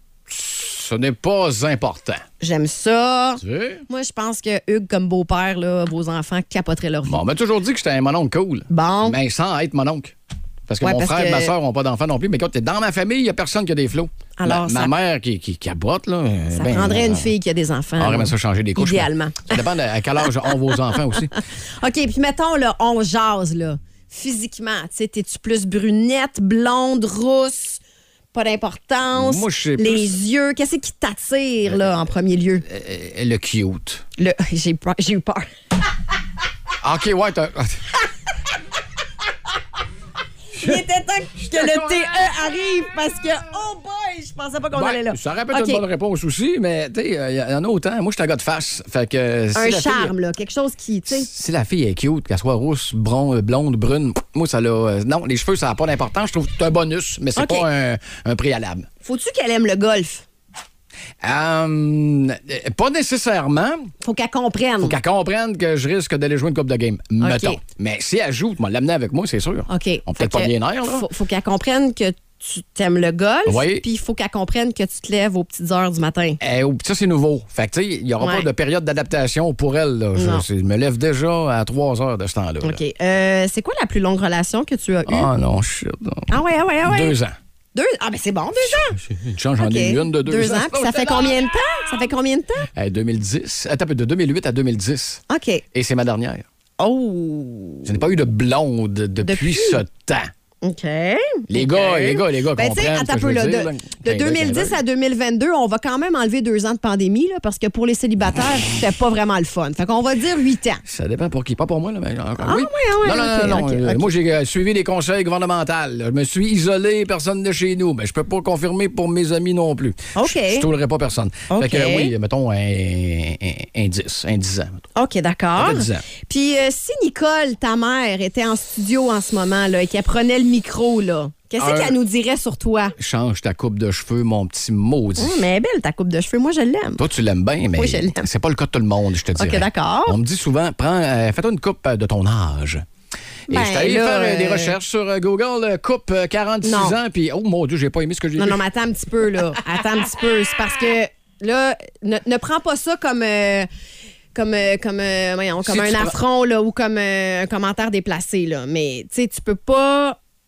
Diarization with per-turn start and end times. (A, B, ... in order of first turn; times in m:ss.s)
0:00.3-0:02.2 A
0:02.4-0:07.2 B
0:03.4-0:03.8 A
0:07.0-0:10.1 A
0:08.7-0:09.2 B
0:10.7-0:17.3 A
0:10.8-0:11.5 B
0:14.4-0:14.9 B
0:16.5-0:19.6 B
0:18.0-0:21.3 A
0:21.4-0:27.8 B
0:28.3-0:32.6 B
0:29.1-0:30.1 A
0:32.6-0:34.0 A
0:34.2-0:35.5 B
0:36.8-0:37.9 A
0:40.6-0:45.8 B
0:41.4-0:42.3 A
0:44.7-0:50.1 A
0:49.5-0:51.3 B
0:51.1-0:58.9 A
0:57.4-0:57.7 B
0:59.0-1:00.2 B
1:01.2-1:03.9 A
1:04.0-1:05.0 B
1:04.8-1:11.1 A
1:07.2-1:07.6 B
1:09.7-1:16.4 B
1:13.4-1:13.8 A
1:16.4-1:22.8 A
1:18.2-1:18.5 B
1:20.1-1:20.4 B
1:22.6-1:25.3 B
1:25.1-1:27.4 A
1:26.3-1:27.1 B
1:27.7-1:29.0 B
1:28.6-1:31.5 A
1:29.6-1:32.7 B
1:32.7-1:36.4 A
1:35.3-1:35.6 B
1:36.8-1:38.0 B
1:37.8-1:40.3 A
1:39.2-1:39.8 B
1:40.6-1:50.8 B
1:41.5-1:44.8 A
1:50.8-2:04.8 A
1:52.4-1:54.1 B
2:00.1-2:00.6 B
2:01.5-2:02.1 B
2:05.0-2:12.9 B
2:05.6-2:06.0 A
2:11.6-2:11.9 A
2:13.0-2:15.4 A
2:15.2-2:17.0 B
2:17.0-2:22.8 A
2:17.7-2:18.3 B
2:19.4-2:20.2 B
2:23.5-2:24.7 B
2:23.5-2:28.6 A
2:26.6-2:27.0 B
2:28.4-2:33.7 B
2:34.3-2:40.2 B
2:35.6-2:36.2 A